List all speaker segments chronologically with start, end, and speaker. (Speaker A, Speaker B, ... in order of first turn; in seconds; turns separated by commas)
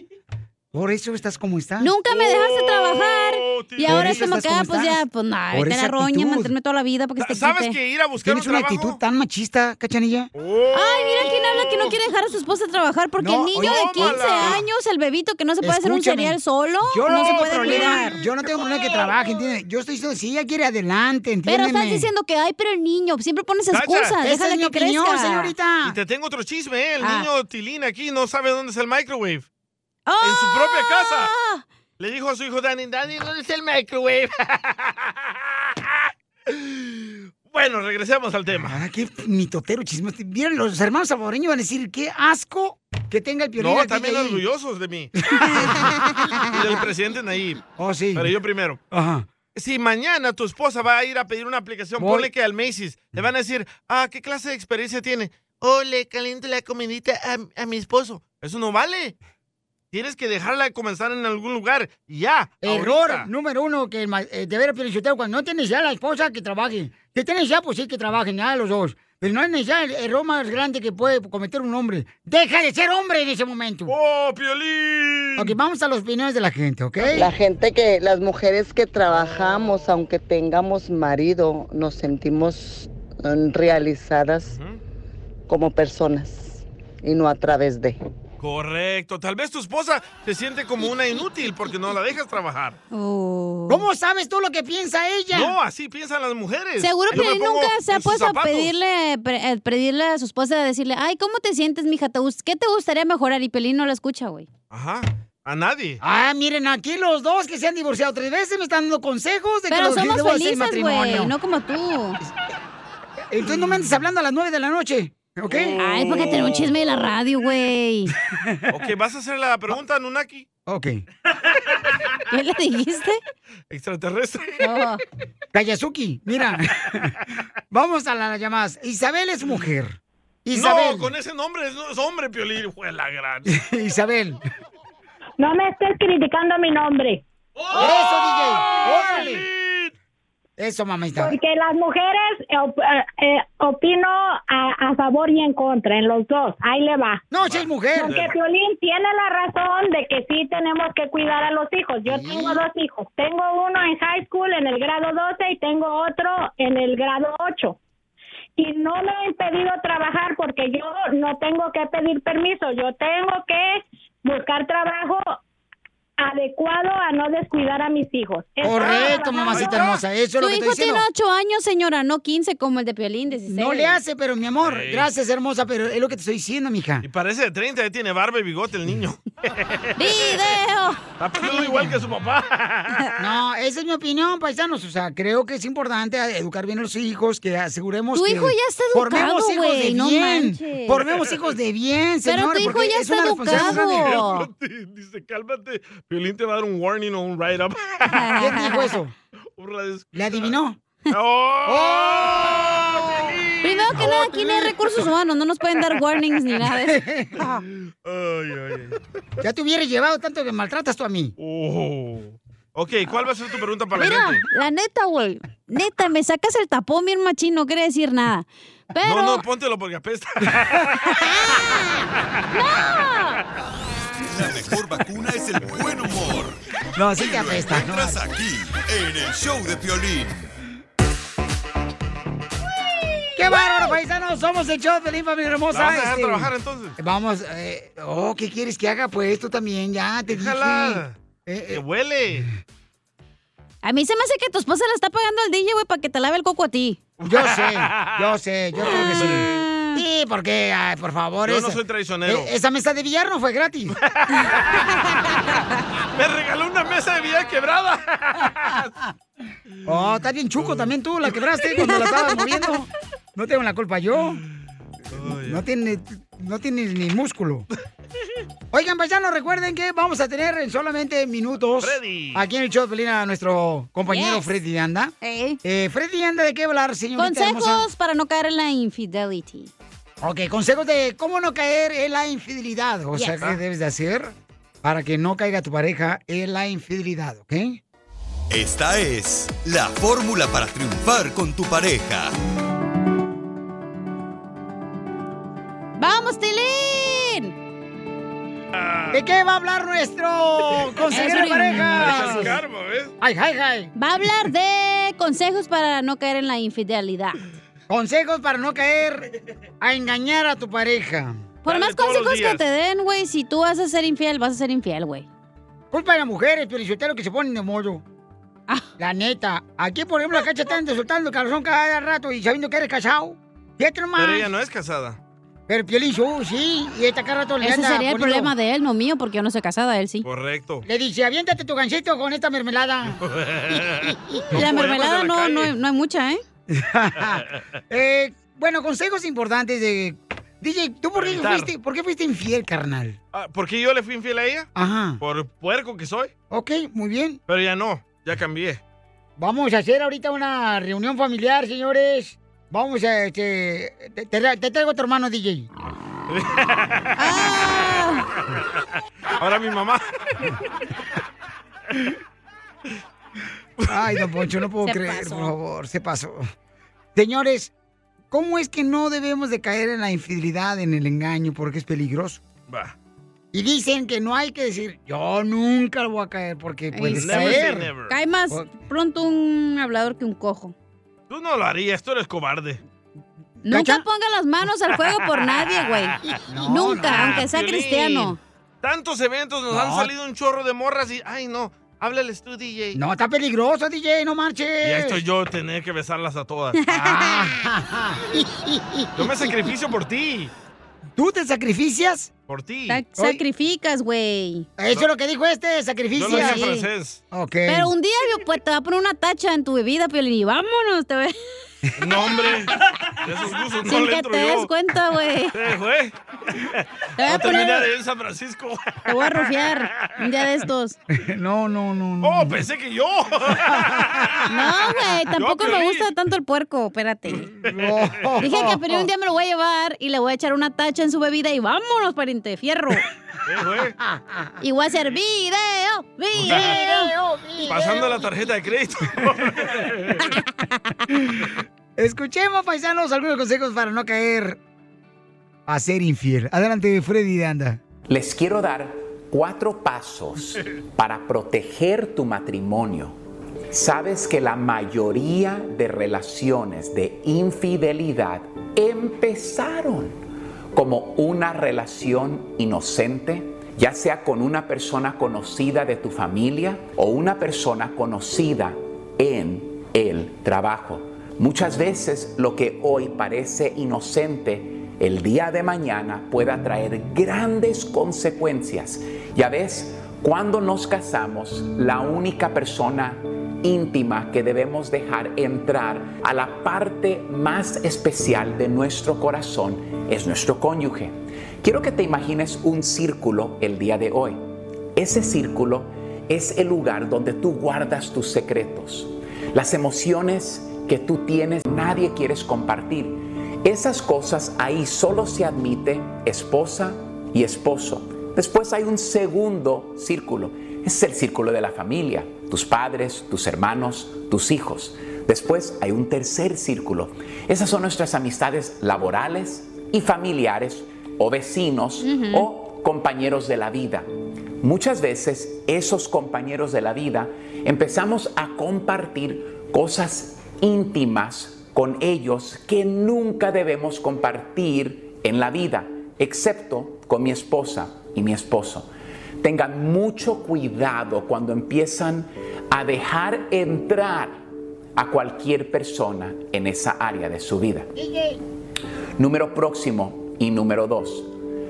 Speaker A: 0.7-1.9, Speaker B: 1.8-7.8, Speaker C: 2.1-4.3, Speaker A: 3.9-6.5, Speaker C: 7.2-9.0, Speaker A: 8.2-10.3, Speaker C: 10.3-12.0, Speaker B: 10.7-18.3, Speaker A: 13.2-14.6, Speaker C: 13.6-14.7, Speaker A: 15.6-16.4, Speaker A: 16.9-22.1, Speaker C: 17.1-18.1, Speaker B: 21.4-25.5, Speaker C: 23.7-24.2, Speaker A: 24.2-26.0, Speaker C: 25.8-29.4, Speaker B: 27.0-27.3, Speaker B: 30.1-31.6, Speaker C: 30.2-31.3, Speaker C: 32.0-35.3, Speaker C: 36.5-38.8, Speaker A: 38.6-44.4, Speaker C: 43.6-45.1, Speaker A: 45.3-46.0, Speaker C: 46.4-47.6, Speaker A: 47.8-48.3, Speaker C: 48.1-48.8, Speaker A: 48.9-49.3, Speaker C: 49.5-59.1, Speaker A: 52.0-52.3, Speaker C: 59.9-63.3, Speaker A: 62.6-73.9, Speaker C: 73.9-75.6, Speaker A: 75.4-77.3, Speaker D: 77.1-84.6, Speaker C: 79.1-79.8, Speaker C: 84.5-84.8, Speaker D: 85.5-88.0, Speaker C: 88.4-92.8, Speaker B: 92.9-93.8, Speaker A: 93.7-95.5, Speaker C: 95.3-98.7, Speaker B: 96.8-104.5, Speaker C: 104.7-106.0, Speaker A: 106.0-111.3, Speaker B: 109.7-112.2, Speaker A: 113.3-115.8, Speaker C: 115.5-116.7, Speaker B: 115.8-118.1, Speaker A: 118.2-118.7, Speaker C: 118.7-120.5, Speaker A: 120.7-121.0, Speaker B: 122.3-123.2, Speaker C: 123.7-124.8, Speaker B: 124.6-125.0, Speaker A: 125.5-131.1, Speaker C: 130.5-133.6, Speaker A: 133.5-134.4, Speaker E: 135.4-137.2, Speaker C: 137.7-139.9, Speaker A: 137.8-139.4, Speaker A: 140.6-141.4, Speaker E: 141.2-147.2, Speaker A: 147.3-148.1, Speaker C: 147.5-148.3, Speaker E: 147.9-157.8, Speaker A: 152.1-152.6, Speaker E: 158.6-165.4, Speaker E: 166.2-169.8, Speaker A: 168.6-171.1, Speaker B: 168.8-169.1, Speaker C: 169.5-170.0, Speaker B: 170.4-174.0, Speaker A: 173.5-177.1, Speaker C: 174.6-175.1, Speaker C: 177.0-180.6, Speaker B: 180.0-181.8, Speaker C: 181.2-183.1, Speaker A: 183.2-194.1, Speaker B: 188.1-191.0, Speaker C: 191.0-191.5, Speaker B: 192.2-194.5, Speaker C: 193.5-198.6, Speaker B: 198.1-199.0, Speaker A: 198.3-199.1, Speaker C: 199.6-200.5, Speaker A: 200.1-200.8, Speaker C: 201.1-204.7, Speaker A: 201.7-203.3, Speaker B: 203.6-207.0, Speaker A: 206.8-207.5, Speaker C: 208.0-209.0, Speaker A: 209.4-211.3, Speaker C: 211.4-214.4, Speaker B: 213.9-219.4, Speaker C: 219.0-221.3, Speaker B: 221.2-223.4, Speaker F: 224.3-226.6, Speaker A: 227.0-228.2, Speaker F: 227.1-230.5, Speaker A: 233.3-241.8, Speaker B: 233.5-233.9, Speaker C: 235.7-236.9, Speaker C: 240.3-241.2, Speaker C: 241.7-242.5, Speaker B: 243.8-247.0, Speaker C: 247.2-249.6, Speaker A: 247.3-254.0, Speaker B: 248.9-250.0, Speaker C: 251.4-252.5, Speaker C: 254.0-255.0, Speaker C: 256.1-258.9, Speaker A: 259.9-264.4, Speaker C: 260.6-260.9, Speaker C: 265.1-265.6, Speaker A: 265.3-267.7, Speaker A: 268.7-277.9, Speaker C: 271.8-272.4, Speaker B: 274.1-274.5, Speaker B: 275.2-275.6, Speaker B: 277.2-279.7, Speaker A: 280.2-287.8, Speaker B: 283.1-283.5, Speaker F: 288.5-292.3, Speaker B: 296.0-297.5, Speaker C: 298.7-299.2, Speaker A: 299.1-302.6, Speaker C: 301.0-303.1, Speaker B: 301.1-302.4, Speaker A: 303.2-303.9, Speaker B: 303.9-307.4, Speaker A: 307.9-309.3, Speaker A: 309.8-311.4, Speaker B: 311.6-315.2, Speaker C: 311.6-312.6, Speaker A: 315.9-318.0, Speaker A: 319.0-324.4, Speaker C: 324.2-325.2, Speaker A: 325.7-328.5, Speaker B: 327.6-330.2, Speaker C: 330.2-330.9, Speaker A: 330.8-333.2, Speaker C: 333.2-335.7, Speaker A: 334.0-334.6, Speaker B: 334.5-336.4, Speaker A: 336.7-343.2, Speaker C: 341.1-341.7, Speaker C: 343.3-346.3, Speaker A: 344.8-345.2, Speaker A: 346.5-347.4, Speaker C: 347.5-348.8, Speaker A: 349.4-355.7, Speaker C: 356.3-357.7, Speaker B: 357.2-358.3, Speaker C: 359.4-360.0, Speaker C: 363.8-364.3, Speaker A: 363.9-366.4, Speaker B: 364.8-365.5, Speaker A: 367.1-367.7, Speaker A: 368.3-372.4, Speaker C: 372.7-372.9, Speaker A: 373.5-377.9, Speaker B: 376.9-380.7, Speaker C: 377.1-378.1, Speaker A: 378.5-378.8, Speaker C: 381.3-382.8, Speaker B: 383.7-388.4, Speaker A: 383.7-384.0, Speaker C: 385.1-386.3, Speaker A: 386.5-387.4, Speaker C: 387.0-393.0, Speaker A: 389.7-390.1, Speaker A: 392.9-395.2, Speaker C: 394.8-396.8, Speaker B: 396.8-397.5, Speaker A: 396.9-399.5, Speaker C: 399.2-400.5, Speaker A: 401.2-402.3, Speaker C: 402.5-403.0, Speaker B: 402.9-404.7, Speaker A: 404.8-406.6, Speaker C: 406.1-407.2, Speaker B: 406.3-406.9, Speaker A: 407.3-407.9, Speaker B: 407.7-411.3, Speaker C: 412.0-414.7, Speaker B: 413.8-415.5, Speaker C: 415.5-420.2, Speaker B: 417.2-417.9, Speaker B: 419.1-421.0, Speaker A: 421.1-422.6, Speaker C: 422.2-426.1, Speaker A: 423.6-424.4, Speaker B: 424.5-427.5, Speaker C: 427.3-428.5, Speaker A: 427.7-429.1, Speaker B: 428.4-433.0, Speaker C: 433.4-433.9, Speaker A: 434.0-434.5, Speaker B: 434.6-437.1, Speaker C: 436.4-436.8, Speaker A: 436.4-438.2, Speaker C: 437.6-440.2, Speaker A: 442.0-444.6, Speaker A: 445.7-447.8, Speaker G: 448.1-453.1, Speaker G: 453.7-460.2, Speaker G: 460.7-494.4, Speaker G: 494.9-524.1, Speaker B: 522.0-522.5, Speaker G: 524.6-538.9, Speaker G: 539.4-544.4, Speaker G: 545.0-547.9, Speaker A: 547.9-548.4, Speaker G: 549.2-551.3